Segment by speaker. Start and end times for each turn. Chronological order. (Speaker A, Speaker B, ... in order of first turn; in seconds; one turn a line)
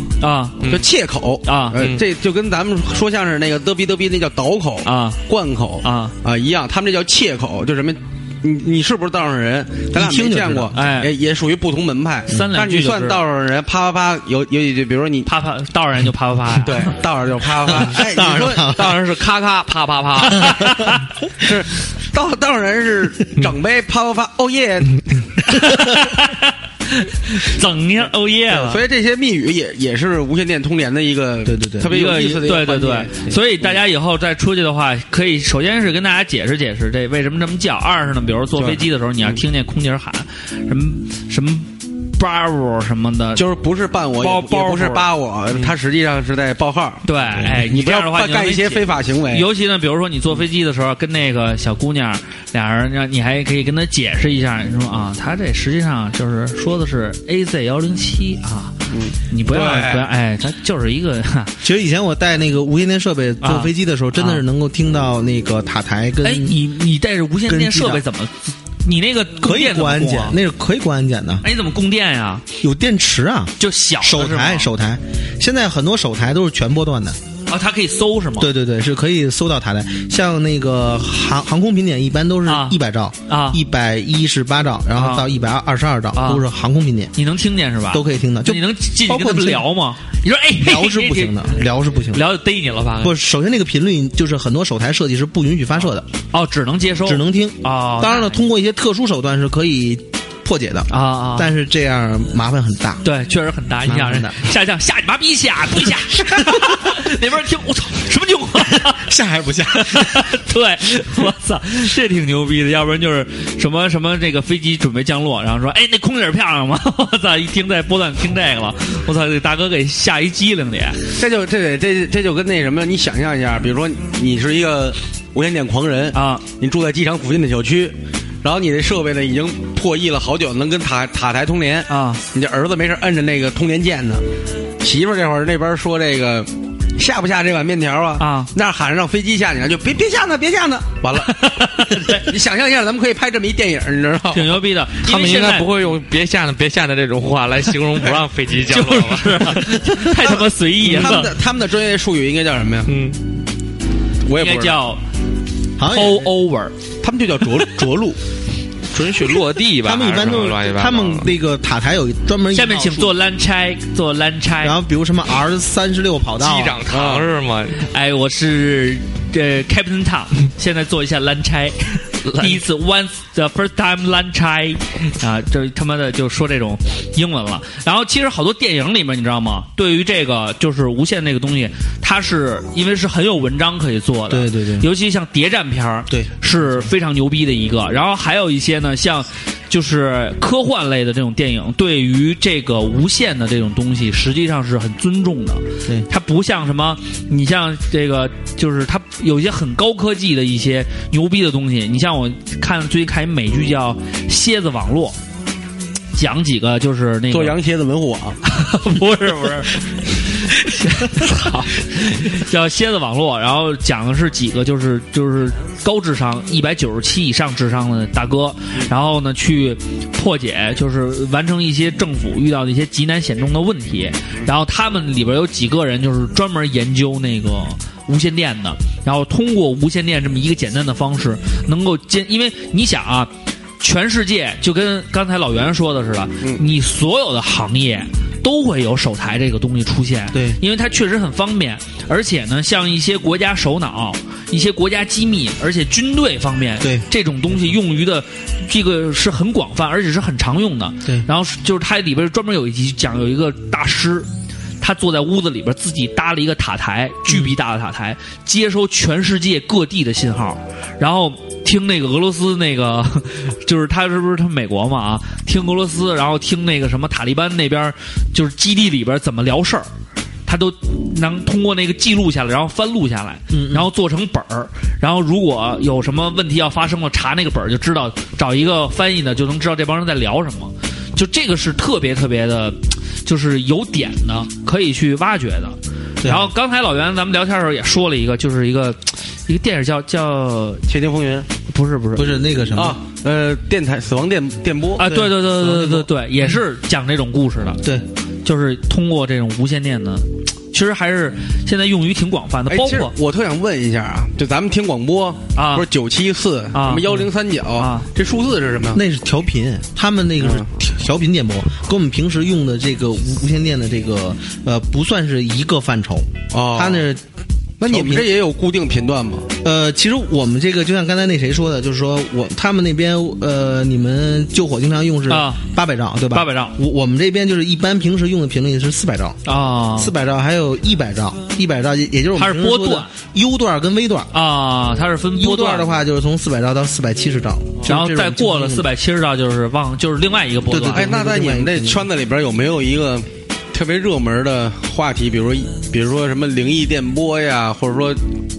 Speaker A: 0.2-0.6
Speaker B: 0.6-0.9
Speaker C: 0.7-15.3
Speaker A: 1.4-1.8
Speaker B: 1.8-2.0
Speaker A: 4.8-5.2
Speaker A: 5.8-6.1
Speaker D: 9.9-10.7
Speaker A: 10.7-11.1
Speaker A: 12.3-13.2
Speaker A: 15.2-17.0
Speaker C: 16.6-18.8
Speaker D: 17.8-19.0
Speaker B: 18.7-20.7
Speaker D: 20.4-20.7
Speaker A: 20.5-21.0
Speaker C: 21.4-25.3
Speaker A: 25.5-28.8
Speaker C: 28.5-33.8
Speaker D: 31.4-31.9
Speaker A: 31.9-43.4
Speaker C: 38.5-39.4
Speaker C: 43.3-49.5
Speaker A: 44.2-45.7
Speaker A: 47.0-58.8
Speaker C: 58.9-60.1
Speaker A: 59.3-61.5
Speaker D: 61.6-66.6
Speaker A: 63.4-64.4
Speaker A: 66.2-70.4
Speaker D: 67.5-68.0
Speaker D: 69.4-71.4
Speaker A: 71.4-72.4
Speaker D: 72.6-77.2
Speaker A: 73.6-74.7
Speaker A: 77.5-78.5
Speaker D: 78.4-87.1
Speaker A: 82.5-83.6
Speaker A: 85.0-85.3
Speaker A: 86.1-86.4
Speaker A: 87.1-91.5
Speaker D: 87.9-89.7
Speaker D: 90.5-92.2
Speaker A: 92.1-93.1
Speaker D: 93.0-96.1
Speaker A: 96.3-98.5
Speaker D: 97.0-103.0
Speaker A: 100.9-101.5
Speaker A: 103.0-109.1
Speaker D: 103.8-104.4
Speaker D: 106.1-106.8
Speaker D: 108.7-110.3
Speaker A: 109.7-121.0
Speaker C: 121.2-134.2
Speaker A: 126.1-126.4
Speaker A: 131.9-132.2
Speaker C: 134.8-144.6
Speaker A: 138.2-138.5
Speaker A: 141.1-142.3
Speaker A: 144.3-145.7
Speaker B: 145.0-149.8
Speaker A: 148.7-151.3
Speaker C: 150.1-152.9
Speaker B: 152.8-153.2
Speaker C: 154.2-154.8
Speaker A: 154.3-155.0
Speaker D: 155.8-156.3
Speaker A: 155.8-156.7
Speaker C: 157.0-158.2
Speaker B: 158.9-161.3
Speaker D: 159.8-163.1
Speaker A: 162.5-164.8
Speaker D: 164.6-166.8
Speaker B: 166.4-167.8
Speaker C: 166.9-167.3
Speaker A: 167.8-205.2
Speaker B: 172.2-172.6
Speaker D: 184.3-184.9
Speaker A: 206.1-207.6
Speaker C: 207.3-208.4
Speaker A: 208.4-254.3
Speaker D: 240.3-240.6
Speaker A: 254.8-269.9
Speaker D: 257.3-257.5
Speaker A: 270.4-290.8
Speaker D: 273.5-273.9
Speaker D: 286.2-286.5
Speaker C: 290.9-291.5
Speaker A: 291.7-292.4
Speaker D: 292.1-293.0
Speaker C: 292.7-295.1
Speaker A: 295.0-297.8
Speaker D: 295.0-296.0
Speaker A: 298.4-303.1
Speaker C: 302.7-309.0
Speaker A: 305.5-305.9
Speaker A: 306.7-308.1
Speaker D: 308.9-317.2
Speaker C: 310.4-310.7
Speaker C: 316.5-317.1
Speaker C: 317.8-319.5
Speaker D: 317.8-318.3
Speaker D: 319.6-329.4
Speaker A: 325.3-325.6
Speaker A: 326.3-326.7
Speaker A: 329.4-330.1
Speaker D: 329.9-334.3
Speaker A: 332.4-333.1
Speaker A: 334.3-335.9
Speaker D: 335.4-338.9
Speaker A: 337.9-341.1
Speaker D: 340.7-342.1
Speaker C: 340.9-348.3